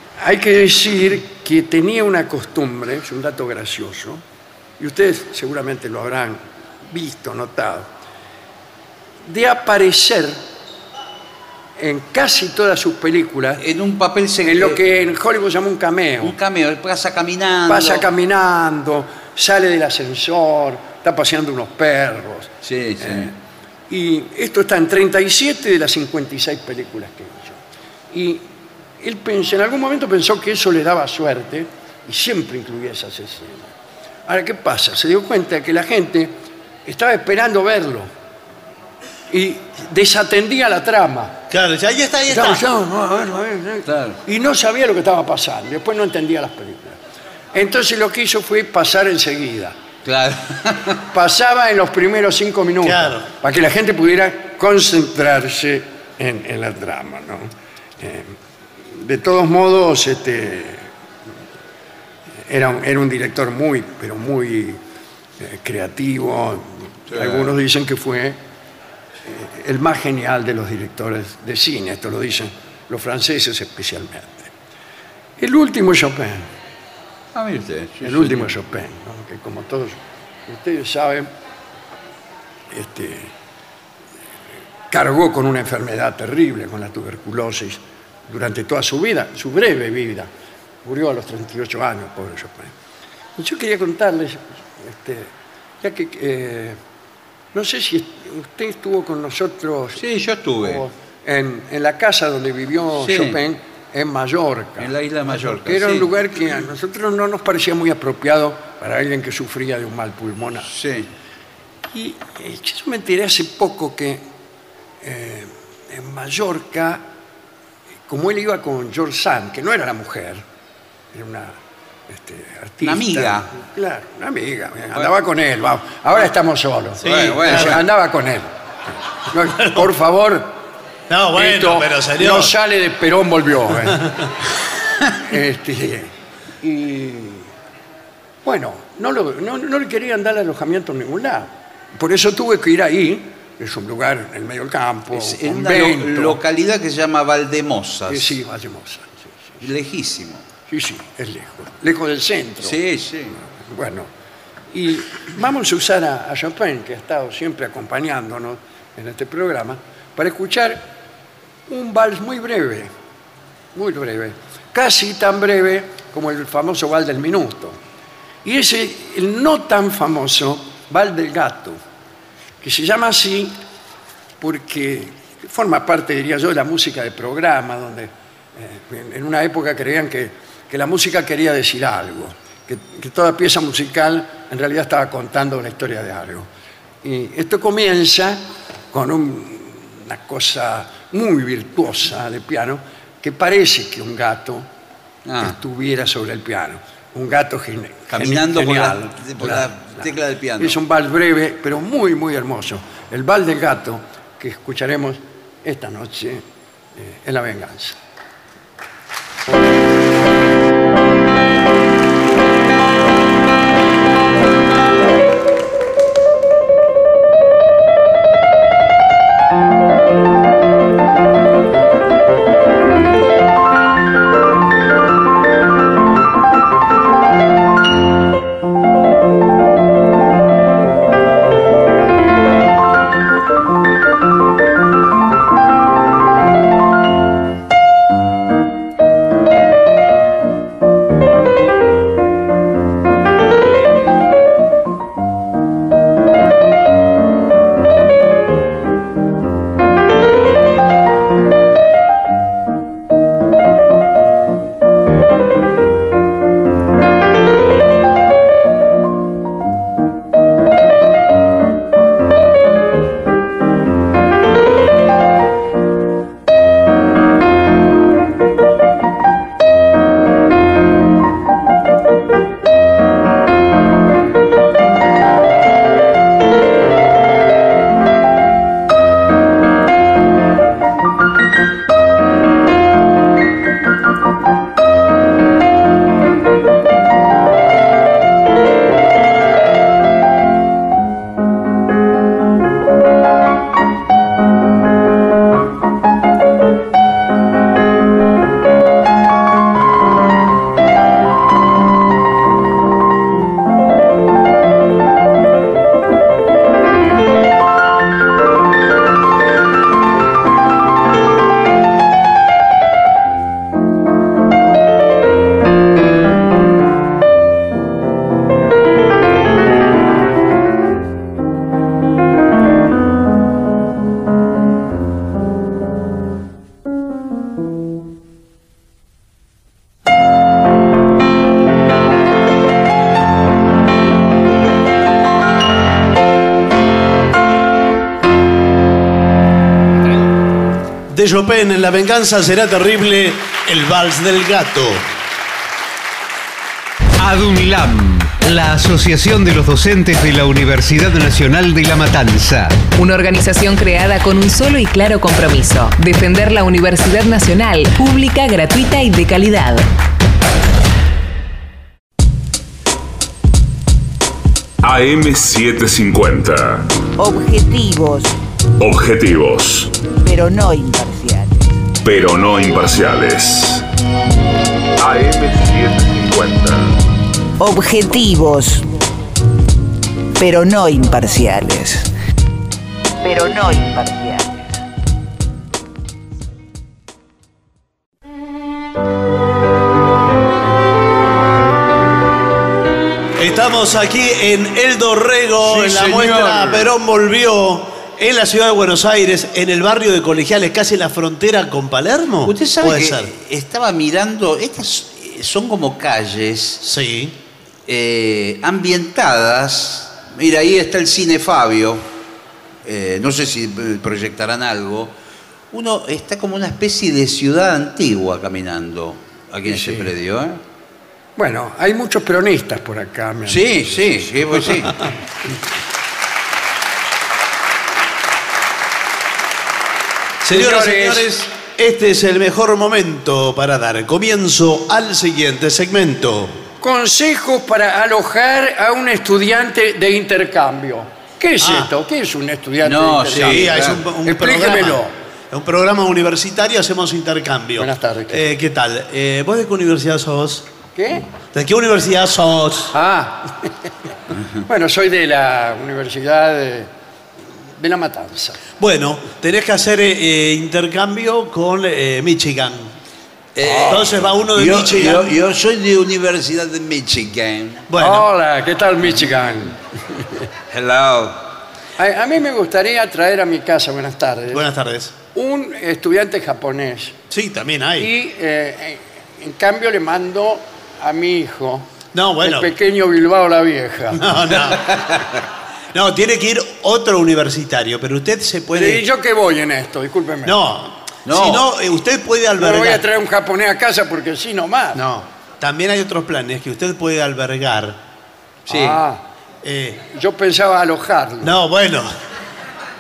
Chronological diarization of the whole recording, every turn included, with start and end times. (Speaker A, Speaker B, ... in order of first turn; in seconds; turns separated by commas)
Speaker A: 0.2-4.2, Speaker A: 4.8-7.9, Speaker A: 9.2-10.4, Speaker A: 11.8-13.6, Speaker B: 13.6-14.8, Speaker A: 14.4-16.3, Speaker B: 16.2-18.1, Speaker A: 17.7-23.3, Speaker B: 22.6-23.3, Speaker A: 23.9-27.6, Speaker A: 28.1-28.5, Speaker A: 29.0-33.7, Speaker A: 34.2-38.1, Speaker A: 39.3-41.4, Speaker C: 41.5-42.6, Speaker A: 42.3-47.0, Speaker B: 43.9-44.2, Speaker A: 47.5-49.7, Speaker B: 50.0-51.0, Speaker A: 51.1-58.3, Speaker C: 52.8-53.3, Speaker A: 58.9-60.9, Speaker A: 62.5-64.8, Speaker A: 65.4-68.4, Speaker B: 67.1-67.5, Speaker A: 69.2-74.5, Speaker A: 75.4-76.5, Speaker B: 77.3-78.5, Speaker A: 78.0-81.3, Speaker A: 82.7-83.3, Speaker A: 84.9-90.3, Speaker A: 90.8-92.7, Speaker A: 93.4-96.8, Speaker A: 97.5-100.0, Speaker B: 100.0-100.8, Speaker A: 100.6-110.7, Speaker B: 103.0-103.4, Speaker B: 104.8-106.2, Speaker B: 110.7-111.1, Speaker A: 111.9-114.2, Speaker A: 115.0-117.0, Speaker A: 118.1-120.4, Speaker A: 121.1-121.5, Speaker A: 122.1-128.5, Speaker B: 122.8-123.5, Speaker C: 127.0-127.8, Speaker B: 127.0-127.8, Speaker A: 129.3-130.5, Speaker C: 131.1-132.5, Speaker A: 131.3-134.1, Speaker A: 135.2-137.5, Speaker A: 138.4-146.4, Speaker B: 145.1-148.4, Speaker A: 148.1-149.6, Speaker B: 149.6-150.4, Speaker A: 150.7-152.8, Speaker B: 152.6-153.3, Speaker A: 153.3-154.1, Speaker A: 154.7-160.9, Speaker A: 161.7-162.9, Speaker A: 163.7-167.8, Speaker A: 168.4-171.8, Speaker A: 172.6-173.5, Speaker A: 174.4-186.5, Speaker A: 187.0-188.4, Speaker A: 188.9-194.7, Speaker B: 195.2-195.6, Speaker A: 195.4-206.4, Speaker B: 198.1-200.8, Speaker A: 207.0-208.0, Speaker C: 341.1-345.0, Speaker D: 347.2-352.8, Speaker E: 352.9-359.9, Speaker F: 364.8-366.9, Speaker G: 367.2-368.3, Speaker F: 368.8-370.0, Speaker G: 370.2-371.8, Speaker F: 372.0-373.8, Speaker F: 375.0-377.0, Speaker G: 377.6-378.9, Speaker G: 380.4-382.1, Speaker G: 383.2-384.7, Speaker C: 393.4-403.3, Speaker B: 395.6-396.9, Speaker B: 402.4-406.8, Speaker C: 406.8-407.3, Speaker B: 407.9-412.0, Speaker B: 412.8-415.1, Speaker B: 415.7-420.6, Speaker A: 419.7-420.1, Speaker A: 421.4-424.3, Speaker B: 423.5-425.0, Speaker C: 430.4-436.6, Speaker A: 430.5-431.3, Speaker A: 436.8-445.1, Speaker C: 441.6-441.9, Speaker B: 442.8-444.0, Speaker C: 443.3-445.0, Speaker C: 445.5-450.7, Speaker A: 447.8-448.4, Speaker A: 450.9-451.3, Speaker C: 451.4-452.9, Speaker A: 452.9-453.7, Speaker A: 454.6-456.9, Speaker A: 457.8-458.6, Speaker C: 458.8-462.9, Speaker B: 463.6-467.9, Speaker A: 463.6-464.1, Speaker C: 463.8-465.3, Speaker C: 467.9-468.3, Speaker A: 468.0-470.4, Speaker B: 470.7-471.4, Speaker A: 472.0-474.6, Speaker C: 474.5-475.1, Speaker A: 475.3-477.1, Speaker C: 477.3-478.1, Speaker A: 478.0-481.9, Speaker C: 482.1-482.7, Speaker A: 482.4-484.3, Speaker C: 484.2-485.0, Speaker C: 485.9-489.0, Speaker A: 488.7-490.6, Speaker C: 490.4-493.0, Speaker B: 491.2-491.7, Speaker A: 492.6-495.0, Speaker C: 494.9-498.0, Speaker A: 498.7-499.2, Speaker B: 498.7-499.0, Speaker C: 499.6-500.0, Speaker A: 500.0-501.5, Speaker C: 501.4-502.1